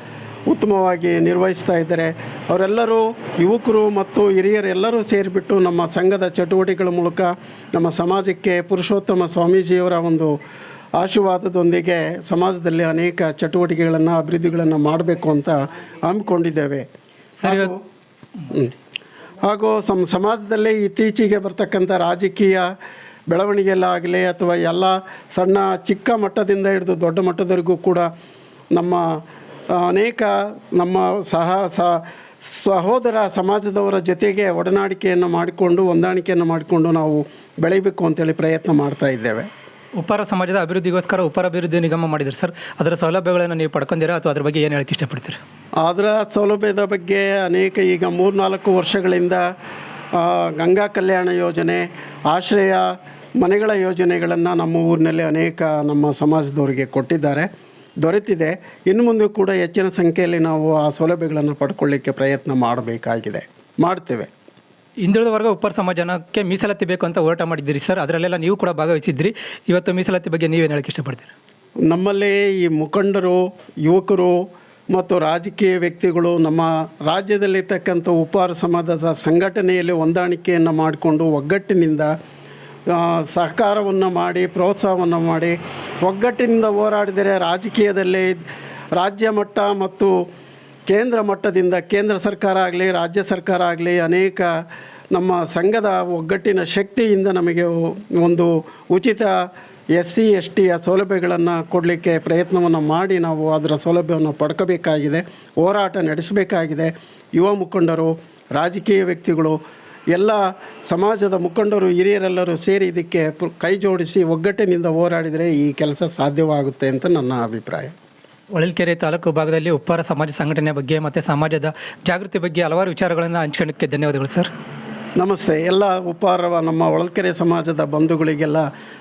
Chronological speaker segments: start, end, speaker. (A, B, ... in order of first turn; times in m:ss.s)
0:00.5-0:10.3 A
0:11.0-0:16.8 A
0:17.4-0:17.7 B
0:17.4-0:17.7 A
0:19.4-0:22.7 A
0:23.3-0:28.1 A
0:28.7-0:29.0 A
0:29.7-0:39.5 A
0:40.0-0:45.4 B
0:45.8-0:49.4 A
0:50.1-0:52.8 A
0:53.4-0:57.5 A
0:58.0-1:04.3 A
1:05.0-1:11.3 B
1:11.8-1:14.4 A
1:14.9-1:22.1 A
1:22.9-1:28.4 A
1:29.0-1:30.1 A
1:30.9-1:34.5 A
1:35.1-1:39.3 A
1:40.0-1:49.6 A
1:50.1-1:57.9 A
1:58.5-2:04.5 B
2:05.2-2:08.6 A